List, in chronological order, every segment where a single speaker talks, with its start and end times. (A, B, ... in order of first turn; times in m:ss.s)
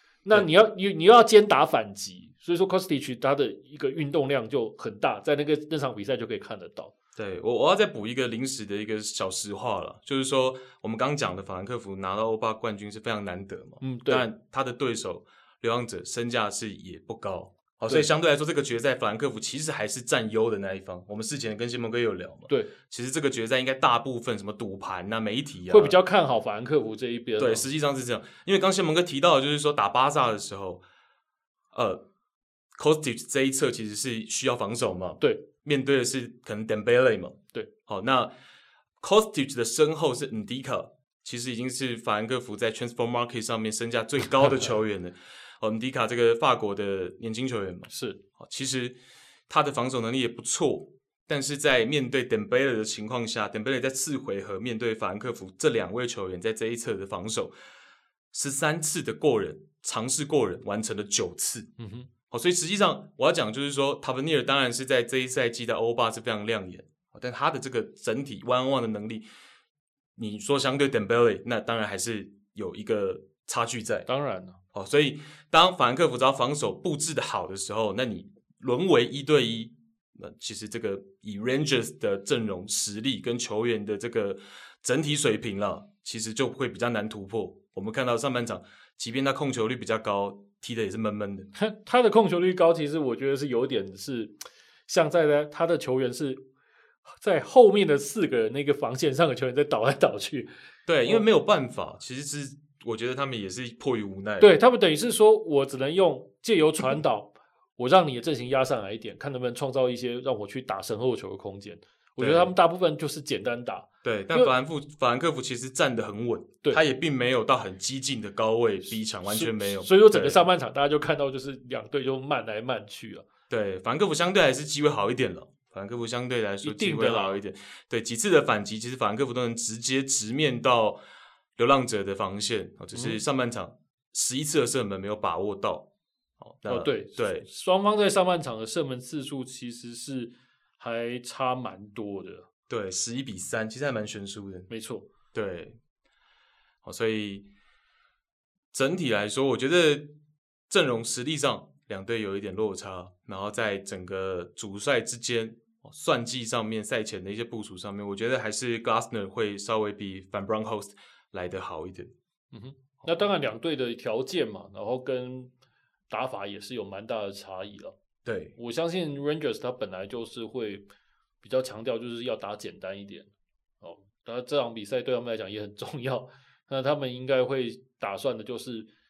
0:00.2-0:06.9 A
0:07.2-0:26.0 B
0:13.8-0:14.2 A
0:25.7-0:27.6 A
0:27.4-0:30.8 B
0:31.7-0:32.0 B
0:32.8-0:38.3 B
0:39.0-0:49.0 B
0:47.9-0:48.2 A
0:49.5-0:57.5 B
0:58.3-1:01.7 B
1:01.8-1:02.1 A
1:02.3-1:09.2 B
1:10.2-1:14.1 B
1:14.0-1:14.6 A
1:14.7-1:31.5 B
1:31.5-1:34.3 A
1:34.9-1:36.4 A
1:37.2-1:40.5 A
1:40.9-1:44.5 B
1:44.4-1:54.5 A
1:52.2-1:52.5 B
1:54.0-2:00.4 B
1:59.2-2:03.2 A
2:03.5-2:11.0 B
2:06.6-2:07.4 A
2:11.6-2:15.9 B
2:12.9-2:13.2 A
2:16.4-2:17.4 B
2:16.7-2:22.5 A
2:22.7-2:24.7 B
2:24.7-2:25.1 A
2:25.3-2:25.8 B
2:26.8-2:27.5 B
2:28.7-2:30.1 B
2:30.7-2:42.1 B
2:42.5-2:45.5 A
2:46.1-2:48.0 A
2:48.2-2:48.6 B
2:48.6-2:50.9 A
2:51.4-2:53.3 A
2:53.8-2:58.9 A